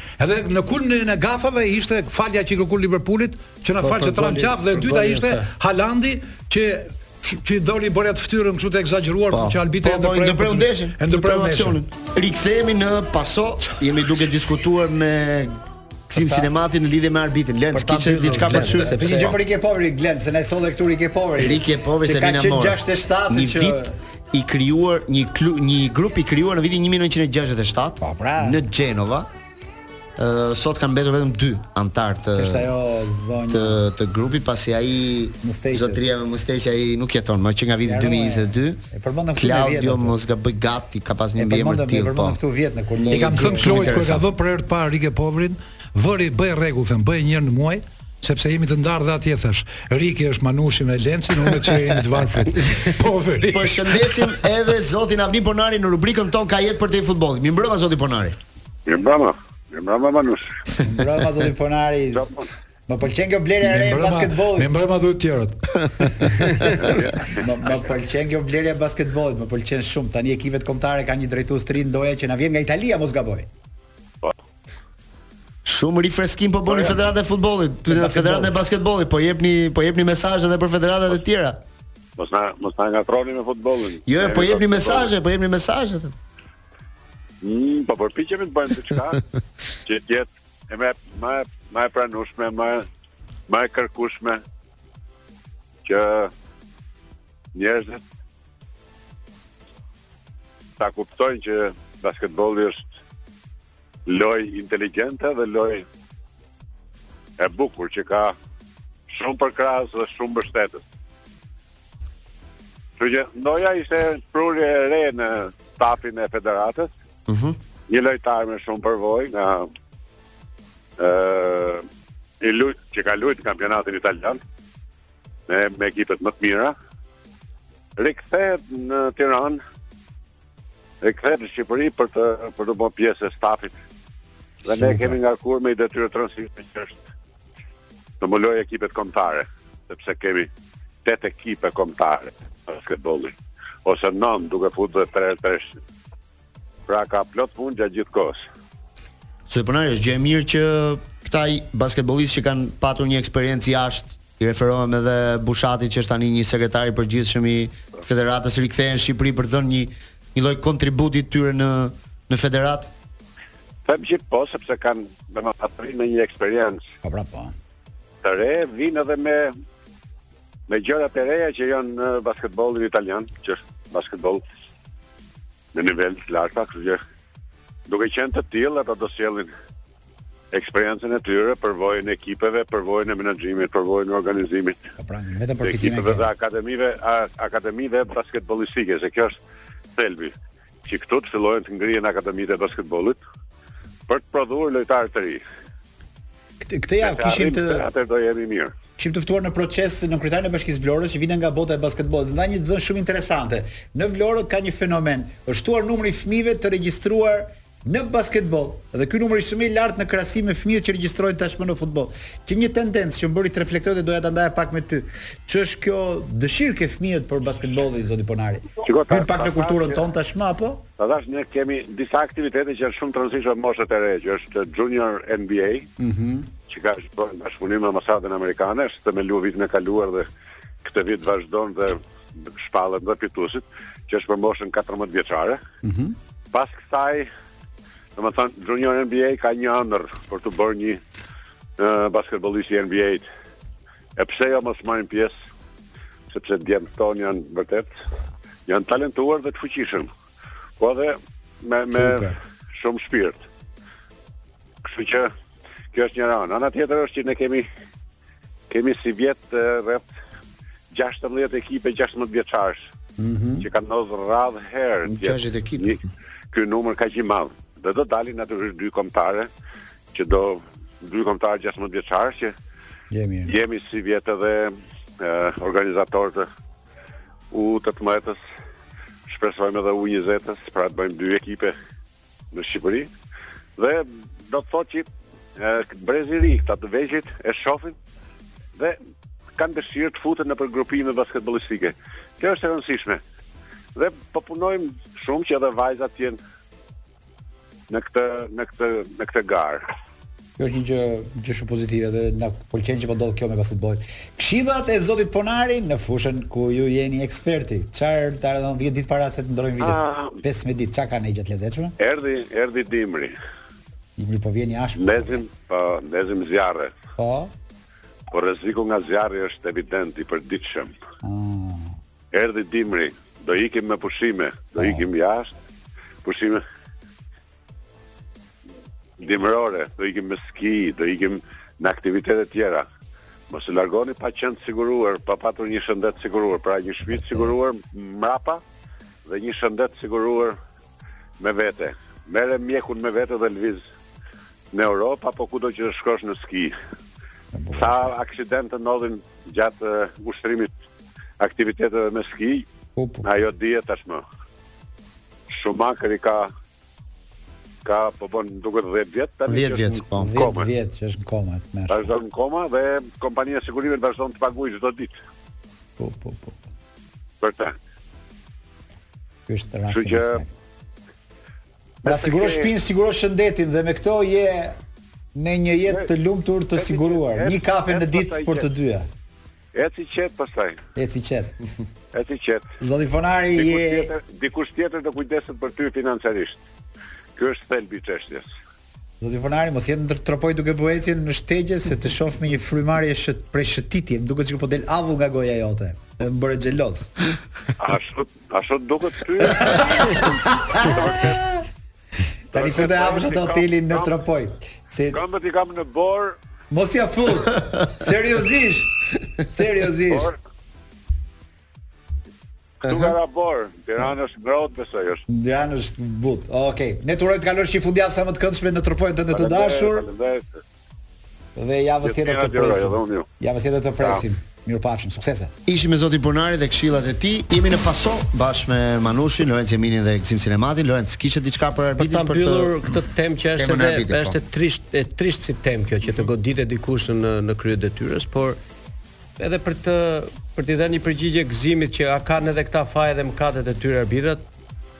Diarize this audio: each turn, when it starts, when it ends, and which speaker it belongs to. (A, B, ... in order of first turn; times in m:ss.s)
0:00.2-0:11.8 A
0:03.8-0:04.3 B
0:03.8-0:05.5 C
0:09.3-0:15.6 B
0:16.1-0:19.4 B
0:16.2-0:16.5 D
0:17.7-0:19.4 C
0:18.5-0:23.9 D
0:21.4-0:22.8 B
0:23.3-0:23.8 B
0:24.3-0:29.3 B
0:28.0-0:28.6 D
0:30.2-0:32.7 B
0:32.3-0:33.8 D
0:33.5-0:38.8 B
0:35.4-0:36.0 D
0:37.8-0:40.2 D
0:39.4-0:42.4 B
0:41.3-0:44.0 D
0:43.0-0:44.2 B
0:43.1-0:54.4 A
0:53.5-0:58.4 B
0:58.9-1:00.4 E
1:00.8-1:02.3 D
1:02.1-1:02.5 E
1:02.9-1:04.8 D
1:03.6-1:06.4 A
1:06.4-1:06.7 B
1:06.8-1:07.4 E
1:07.3-1:13.5 D
1:15.6-1:21.6 B
1:16.7-1:17.0 E
1:17.9-1:18.6 D
1:22.2-1:25.1 E
1:24.1-1:26.1 B
1:27.4-1:29.2 E
1:29.9-1:32.8 E
1:33.5-1:34.4 E
1:35.8-1:36.3 E
1:37.5-1:38.0 E
1:40.8-1:42.9 E
1:44.0-1:45.8 E
1:47.4-1:48.3 E
1:49.1-1:50.8 E
1:53.0-1:56.9 E
1:57.3-1:57.6 B
1:57.9-1:59.7 E
2:01.0-2:01.8 E
2:02.4-2:04.4 E
2:05.5-2:06.7 E
2:08.0-2:09.6 E
2:11.0-2:13.7 E
2:14.6-2:17.0 E
2:14.7-2:15.2 D
2:18.2-2:20.5 E
2:21.0-2:25.7 E
2:26.9-2:28.4 E
2:29.5-2:42.9 B
2:43.8-2:46.8 E
2:47.0-2:47.5 D
2:48.2-2:49.5 E
2:50.7-2:54.4 E
2:55.7-2:57.0 E
2:57.9-2:59.5 E
3:00.5-3:04.8 E
3:05.0-3:06.3 D
3:05.6-3:09.4 E
3:10.0-3:10.3 E
3:10.8-3:13.2 E
3:14.1-3:15.4 E
3:16.6-3:17.9 D
3:17.0-3:18.7 E
3:19.0-3:40.8 D
3:38.8-3:40.0 E
3:41.0-3:45.9 E
3:46.0-3:46.5 D
3:46.7-3:50.3 E
3:50.8-3:52.0 E
3:52.6-3:55.6 E
3:55.8-3:56.2 D
3:56.5-3:57.3 E
3:58.2-4:01.0 E
4:01.8-4:03.2 E
4:04.2-4:05.3 E
4:06.3-4:07.9 E
4:08.7-4:10.1 E
4:10.8-4:13.4 E
4:11.9-4:12.3 D
4:14.8-4:15.3 E
4:15.9-4:17.6 E
4:18.7-4:20.0 E
4:20.9-4:22.8 E
4:23.2-4:23.7 D
4:23.6-4:26.0 E
4:25.0-4:26.1 B
4:26.5-4:29.5 E
4:30.1-4:32.5 E
4:33.1-4:33.6 D
4:33.5-4:36.5 E
4:37.5-4:38.4 E
4:39.3-4:41.7 E
4:42.5-4:43.1 E
4:43.8-4:48.0 E
4:49.6-4:53.2 E
4:53.9-4:56.4 E
4:57.9-4:59.9 E
5:00.6-5:12.0 D
5:09.8-5:10.4 E
5:12.0-5:13.3 E
5:14.2-5:15.4 D
5:15.0-5:16.9 E
5:17.2-5:17.5 D
5:18.3-5:20.9 E
5:21.2-5:22.0 D
5:22.3-5:25.5 E
5:24.8-5:25.1 D
5:26.2-5:26.6 E
5:29.2-5:32.8 E
5:33.5-5:38.6 E
5:39.2-5:40.6 E
5:41.4-5:43.8 E
5:44.7-5:46.7 E
5:47.5-5:48.1 D
5:47.7-5:50.7 E
5:51.4-5:52.6 E
5:53.0-5:53.3 D
5:53.2-5:54.2 E
5:55.5-5:56.5 E
5:57.8-6:00.7 E
5:59.5-6:00.5 B
6:00.2-6:02.1 D
6:01.9-6:05.1 E
6:06.0-6:06.6 D
6:07.4-6:07.7 E
6:09.5-6:10.5 D
6:09.9-6:10.4 E
6:12.0-6:12.7 E
6:12.0-6:14.8 D
6:15.3-6:19.1 D
6:16.8-6:18.7 E
6:19.7-6:20.8 E
6:21.0-6:21.6 D
6:22.1-6:22.6 E
6:22.8-6:24.1 D
6:23.6-6:26.6 E
6:27.4-6:28.5 E
6:29.2-6:37.1 D
6:37.8-6:41.6 E
6:39.4-6:41.4 D
6:42.5-6:45.2 D
6:42.5-6:44.2 E
6:45.1-6:46.4 E
6:46.7-6:48.9 D
6:49.5-6:50.3 D
6:50.1-6:50.4 E
6:52.8-6:55.2 E
6:52.8-6:53.1 B
6:55.3-7:00.1 D
6:59.3-7:00.5 E
7:01.6-7:05.5 D
7:02.0-7:03.2 E
7:05.7-7:12.9 B
7:12.0-7:18.6 C
7:13.6-7:14.4 B
7:19.4-7:24.4 C